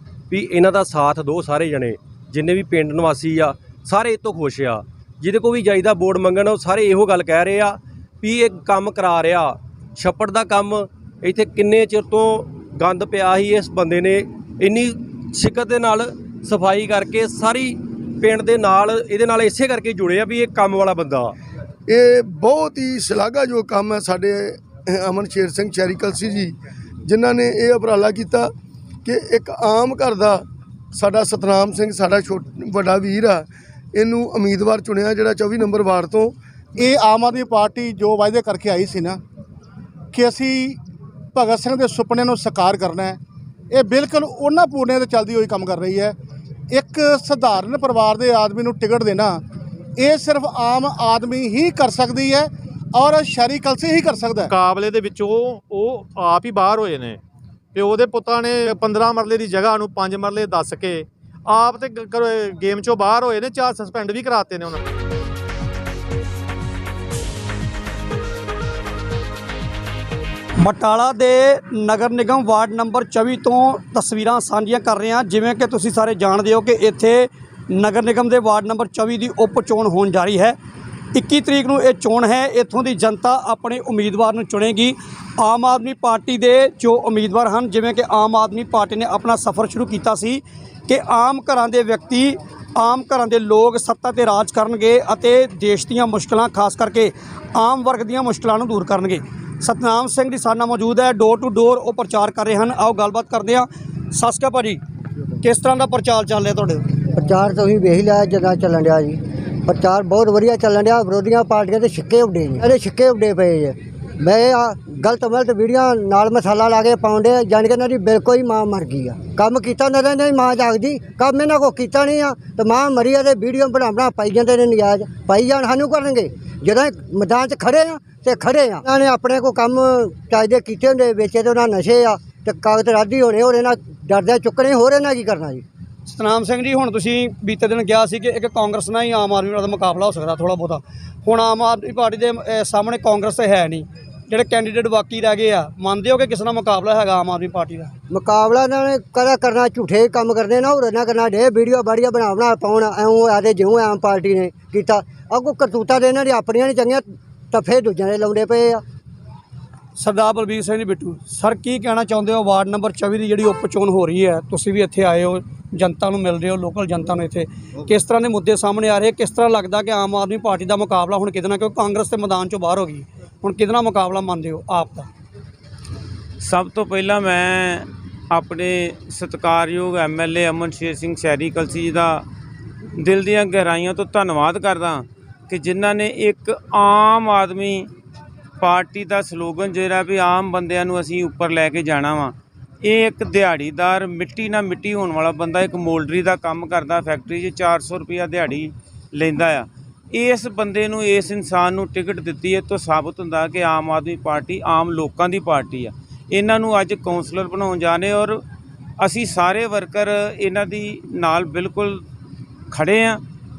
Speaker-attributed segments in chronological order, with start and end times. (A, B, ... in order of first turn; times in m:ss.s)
0:00.3-0:21.3 A
0:21.9-0:26.5 B
0:27.0-0:28.5 B
0:29.0-0:36.3 B
0:36.8-0:39.2 C
0:40.1-0:40.8 C
0:41.3-0:43.2 C
0:43.7-0:46.1 C
0:46.7-0:49.4 C
0:50.0-0:54.5 C
0:54.5-0:57.2 D
0:57.7-1:04.8 D
1:10.6-1:20.6 E
1:21.1-1:44.8 E
1:45.4-1:46.8 E
1:47.1-2:15.6 F
2:16.1-2:27.9 E
2:28.1-2:38.8 F
2:40.0-2:55.1 E
2:56.4-3:02.2 G
3:03.0-3:07.9 G
3:08.6-3:28.4 G
3:29.0-3:32.0 G
3:32.7-3:33.2 G